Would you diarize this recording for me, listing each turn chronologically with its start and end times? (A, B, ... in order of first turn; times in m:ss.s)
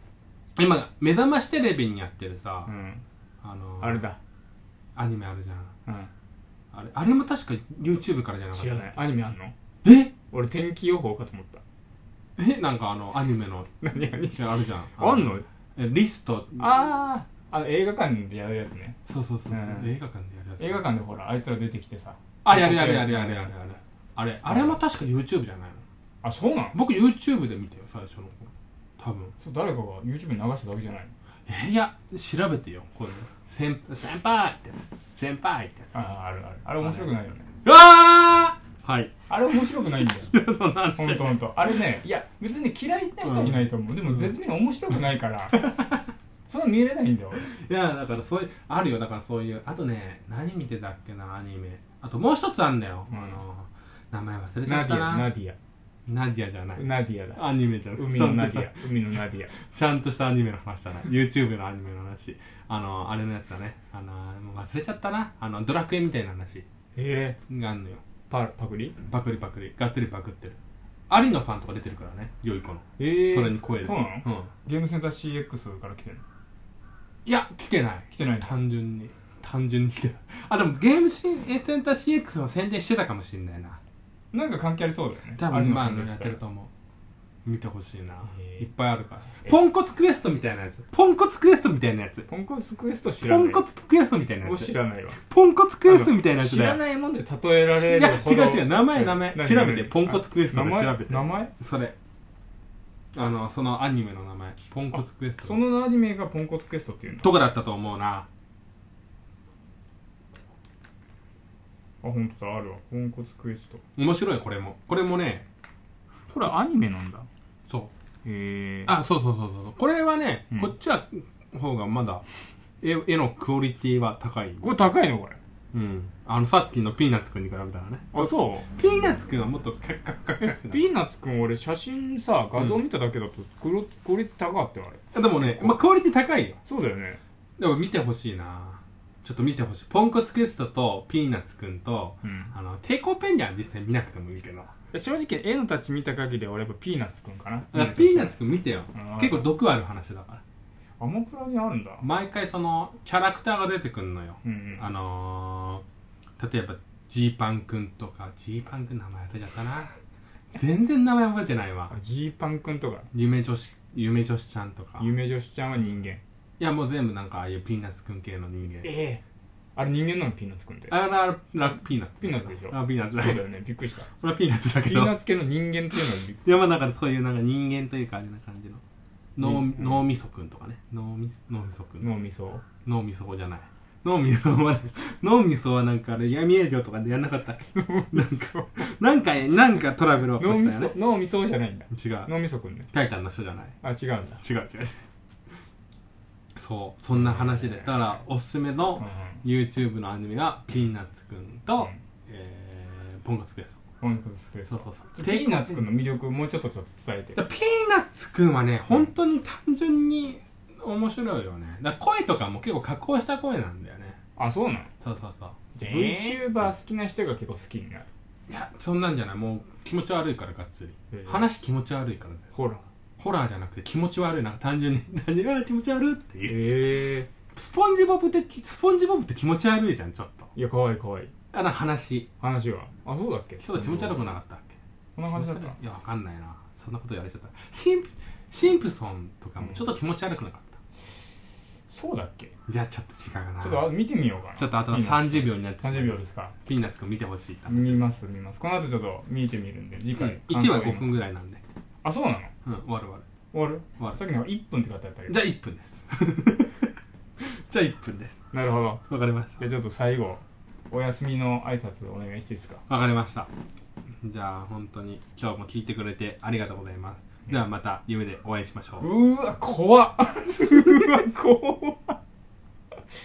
0:00.6-0:02.7 A
0:02.6-0:03.0 B
0:03.4-0:04.0 A
0:03.8-0:04.2 B
0:05.0-0:05.7 A
0:06.7-0:09.1 A
0:08.5-0:09.5 B
0:09.8-0:10.1 A
0:10.3-0:11.6 B
0:12.4-0:16.6 A
0:13.8-0:15.4 B
0:16.6-0:19.0 B
0:19.1-0:20.8 A
0:19.5-0:19.9 B
0:20.6-0:23.5 B
0:22.4-0:25.8 A
0:24.5-0:24.7 B
0:26.2-0:26.8 B
0:26.7-0:29.3 A
0:29.4-0:31.1 B
0:31.5-0:36.0 A
0:35.9-0:37.5 B
0:36.8-0:37.1 A
0:37.6-0:41.8 A
0:39.3-0:40.3 B
0:41.0-0:45.6 B
0:43.2-0:44.3 A
0:45.5-0:46.1 A
0:46.5-0:47.4 B
0:47.4-0:55.3 A
0:53.1-0:53.4 B
0:54.6-0:55.6 B
0:56.1-1:06.6 A
0:56.8-0:57.4 B
0:58.0-0:59.5 B
1:07.0-1:07.4 B
1:07.5-1:08.0 A
1:08.3-1:09.0 B
1:09.1-1:10.6 A
1:11.1-1:14.5 A
1:13.0-1:16.2 B
1:17.2-1:23.8 A
1:18.1-1:18.6 B
1:24.3-1:26.4 B
1:25.4-1:26.7 A
1:27.4-1:32.3 A
1:28.3-1:28.7 B
1:32.3-1:33.6 B
1:33.2-1:36.8 A
1:34.4-1:35.2 B
1:35.8-1:41.5 B
1:37.7-1:41.9 A
1:43.1-1:45.6 A
1:45.4-1:47.3 B
1:47.2-1:48.3 A
1:52.0-1:53.8 B
1:54.0-1:55.4 A
1:56.3-1:57.3 B
1:58.2-1:58.9 B
1:58.8-2:02.2 A
2:02.8-2:04.8 A
2:04.6-2:05.4 B
2:05.7-2:10.9 A
2:08.1-2:08.7 B
2:10.4-2:15.8 B
2:15.1-2:16.6 A
2:16.6-2:17.2 B
2:17.6-2:24.7 A
2:22.2-2:22.5 B
2:24.9-2:28.4 B
2:27.7-2:30.4 A
2:28.9-2:29.5 B
2:31.0-2:32.0 B
2:32.0-2:35.8 A
2:34.4-2:34.8 B
2:36.4-2:39.9 A
2:40.5-2:41.9 A
2:41.9-2:43.1 B
2:43.1-2:45.1 A
2:45.0-2:46.2 B
2:46.6-2:49.0 A
2:48.8-2:49.2 B
2:49.8-2:50.9 B
2:50.9-2:53.5 A
2:52.2-2:54.1 B
2:54.1-2:55.2 A
2:54.8-2:56.4 B
2:56.3-2:58.8 A
2:59.4-3:02.1 A
2:59.4-3:00.0 B
3:02.0-3:02.6 B
3:02.8-3:11.0 A
3:07.7-3:08.8 B
3:10.4-3:12.9 B
3:11.9-3:12.3 A
3:12.9-3:13.8 A
3:13.8-3:14.4 B
3:14.4-3:15.0 A
3:16.6-3:23.8 A
3:17.1-3:18.0 B
3:19.0-3:19.4 B
3:24.0-3:27.4 B
3:24.7-3:25.9 A
3:27.3-3:34.2 A
3:34.4-3:34.9 B
3:35.0-3:36.7 A
3:35.7-3:38.1 B
3:38.5-3:42.5 A
3:41.1-3:41.5 B
3:42.5-3:42.8 B
3:43.2-3:50.5 A
3:46.4-3:47.3 B
3:50.5-3:51.3 B
3:51.5-3:52.3 A
3:52.4-3:54.2 B
3:53.6-3:54.8 A
3:55.2-3:55.8 B
3:55.3-4:00.7 A
3:59.6-3:59.9 B
4:01.9-4:02.5 B
4:02.7-4:04.0 A
4:03.6-4:06.5 B
4:04.6-4:08.0 A
4:07.7-4:11.1 B
4:10.1-4:11.6 A
4:12.0-4:12.5 B
4:12.6-4:13.2 A
4:13.5-4:15.4 B
4:15.3-4:18.4 A
4:18.5-4:19.0 B
4:19.1-4:19.7 A
4:19.6-4:22.8 B
4:22.9-4:23.5 A
4:24.2-4:29.1 A
4:29.0-4:32.2 B